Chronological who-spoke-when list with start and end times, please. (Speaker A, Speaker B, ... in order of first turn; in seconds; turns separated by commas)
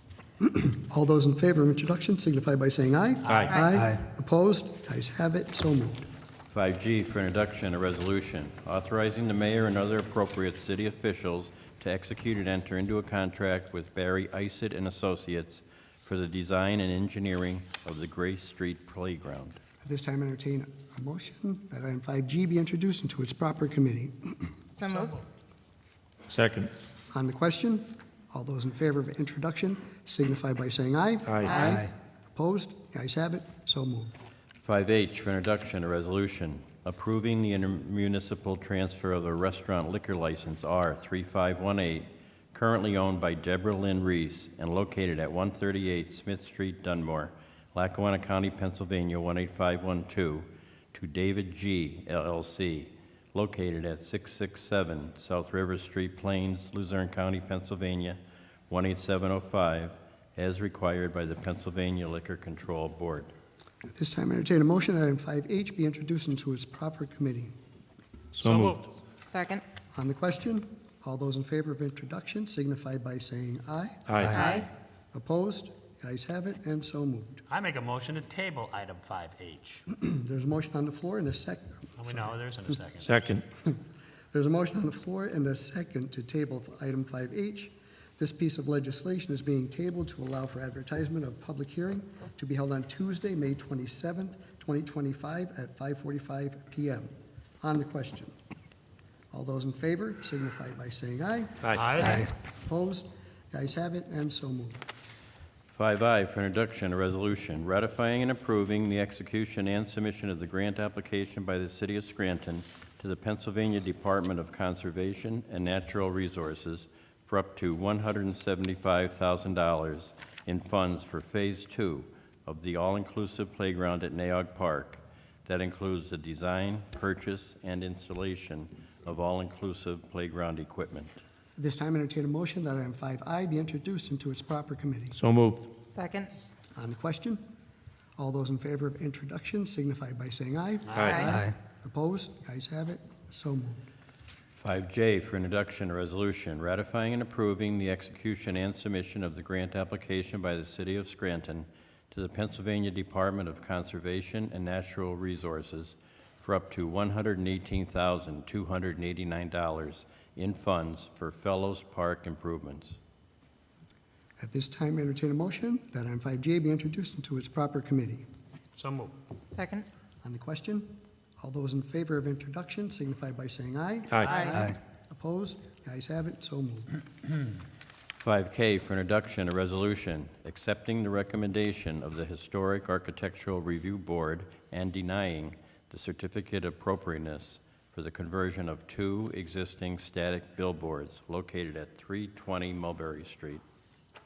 Speaker A: 0.4-6.1, Speaker B: 3.3-3.6, Speaker C: 6.5-19.6, Speaker A: 19.8-24.5, Speaker D: 24.8-25.1, Speaker E: 24.9-25.2, Speaker B: 26.3-26.7, Speaker A: 27.1-34.1, Speaker B: 31.3-31.7, Speaker C: 34.6-63.3, Speaker A: 63.9-67.5, Speaker B: 68.3-68.8, Speaker E: 68.5-68.9, Speaker D: 69.3-69.6, Speaker A: 69.9-77.4, Speaker B: 74.1-74.5, Speaker D: 74.4-74.7, Speaker E: 77.5-79.8, Speaker A: 79.9-82.2, Speaker E: 82.0-83.0, Speaker B: 83.0-83.5, Speaker A: 84.3-98.3, Speaker A: 99.3-104.8, Speaker E: 101.8-102.2, Speaker C: 105.7-131.1, Speaker A: 131.6-135.2, Speaker B: 135.2-135.7, Speaker D: 135.9-136.3, Speaker A: 136.8-137.4, Speaker A: 138.2-143.8, Speaker B: 140.9-141.3, Speaker C: 144.6-163.0, Speaker A: 164.4-168.2, Speaker E: 168.8-169.2, Speaker D: 169.5-169.9, Speaker A: 170.2-176.9, Speaker E: 174.2-174.6, Speaker C: 178.2-193.6